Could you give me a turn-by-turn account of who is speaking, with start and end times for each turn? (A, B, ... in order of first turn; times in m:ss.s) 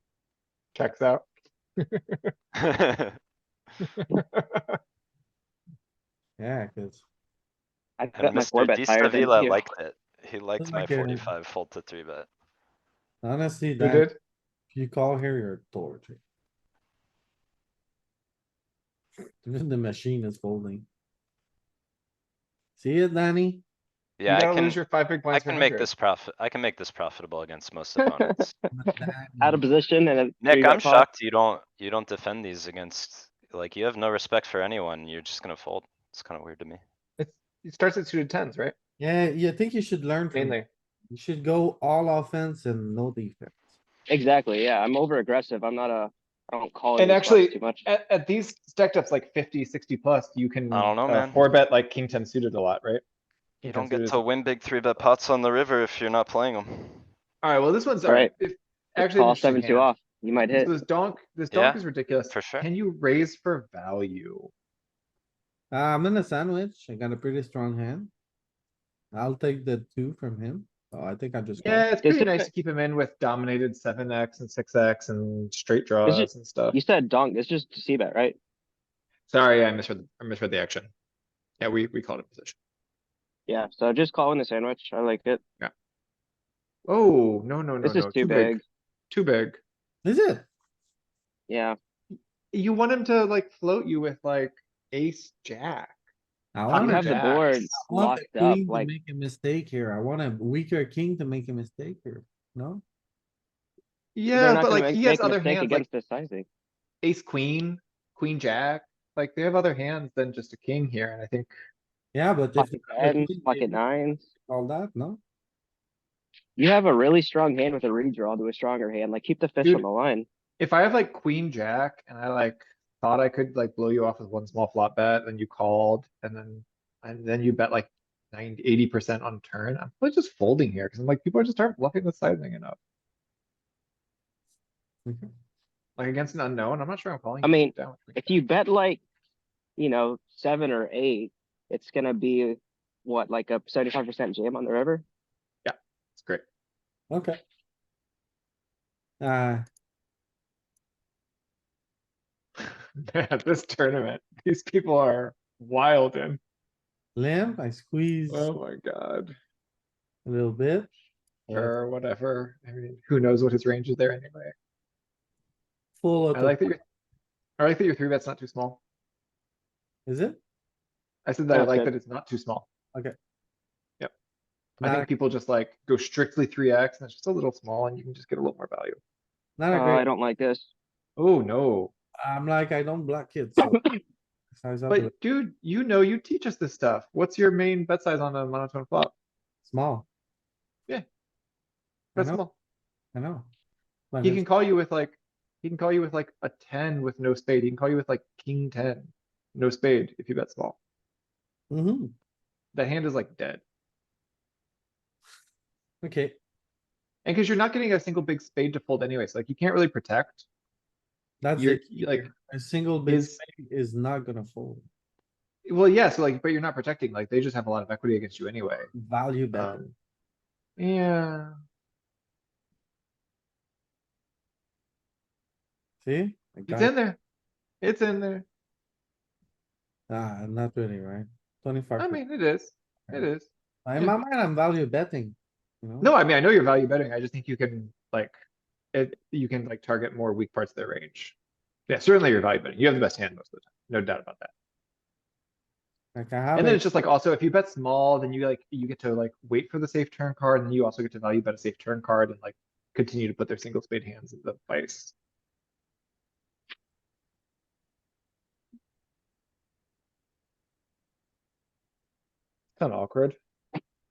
0:00.8-0:01.3 A
0:01.8-0:02.3 A
0:02.7-0:03.1 B
0:03.8-0:04.8 A
0:06.4-0:07.0 C
0:08.0-0:09.6 D
0:08.2-0:12.3 B
0:10.6-0:11.3 C
0:13.2-0:14.1 C
0:13.8-0:14.2 A
0:14.7-0:16.2 C
0:19.4-0:20.9 C
0:22.8-0:23.6 C
0:24.2-0:28.6 B
0:24.3-0:25.9 A
0:28.7-0:29.7 C
0:29.4-0:31.1 D
0:30.4-0:36.8 B
0:37.2-0:38.8 A
0:39.0-0:40.6 C
0:40.3-0:40.7 A
0:41.1-0:43.7 C
0:44.1-0:47.8 D
0:47.0-0:53.0 A
0:50.7-0:51.5 B
0:53.6-0:54.2 A
0:53.6-0:57.1 B
0:57.4-0:59.9 A
0:58.0-0:58.3 D
0:59.0-1:00.7 D
1:00.5-1:04.5 A
1:01.5-1:02.7 B
1:05.7-1:08.1 C
1:09.1-1:11.9 C
1:11.6-1:16.8 A
1:12.0-1:12.5 D
1:16.0-1:18.4 D
1:19.3-1:20.9 A
1:21.6-1:22.6 A
1:23.5-1:25.4 D
1:26.9-1:29.6 A
1:27.8-1:28.6 D
1:30.0-1:30.5 C
1:31.5-1:31.8 D
1:32.5-1:36.0 A
1:36.6-1:42.8 C
1:36.7-1:37.7 A
1:36.7-1:38.9 D
1:44.2-1:45.8 A
1:44.3-1:46.5 D
1:47.0-1:51.5 A
1:52.1-1:53.8 C
1:52.6-1:54.2 D
1:54.5-1:55.2 C
1:56.6-2:00.3 D
2:00.6-2:12.8 A
2:15.1-2:15.3 C
2:16.0-2:18.4 A
2:17.4-2:19.0 D
2:19.8-2:25.0 D
2:25.6-2:26.4 A
2:27.1-2:27.4 C
2:29.2-2:29.6 C
2:33.0-2:36.4 A
2:37.2-2:38.5 C
2:38.3-2:39.3 A
2:40.2-2:40.9 C
2:41.5-2:41.7 C
2:41.5-2:44.5 A
2:46.0-2:46.7 C
2:46.3-2:46.8 A
2:47.6-2:48.8 A
2:50.1-2:50.4 C
2:51.3-2:52.7 A
2:51.5-2:51.9 D
2:54.8-2:59.0 A
2:54.8-2:55.1 C
2:59.6-3:00.1 C
2:59.7-3:00.7 D
3:01.2-3:01.9 A
3:02.2-3:04.0 C
3:04.6-3:05.1 C
3:04.9-3:09.1 A
3:09.6-3:10.1 C
3:12.2-3:12.5 A
3:12.2-3:12.4 C
3:13.2-3:13.5 C
3:14.1-3:14.4 C
3:14.2-3:20.8 A
3:21.7-3:22.1 C
3:22.7-3:23.6 A
3:26.0-3:26.4 C
3:27.2-3:30.5 A
3:31.4-3:34.9 C
3:31.6-3:32.3 A
3:33.1-3:33.4 A
3:35.7-3:38.9 A
3:39.0-3:39.7 C
3:39.5-3:39.9 A
3:40.8-3:41.5 A
3:46.0-3:46.9 C
3:46.7-3:47.2 A
3:47.8-3:48.4 A
3:50.1-3:52.2 C
3:52.0-3:54.2 A
3:53.8-3:56.1 C
3:56.0-3:58.3 A
3:58.9-4:01.4 A
4:01.9-4:04.5 A
4:06.2-4:06.9 C
4:06.6-4:15.1 A
4:22.8-4:23.4 A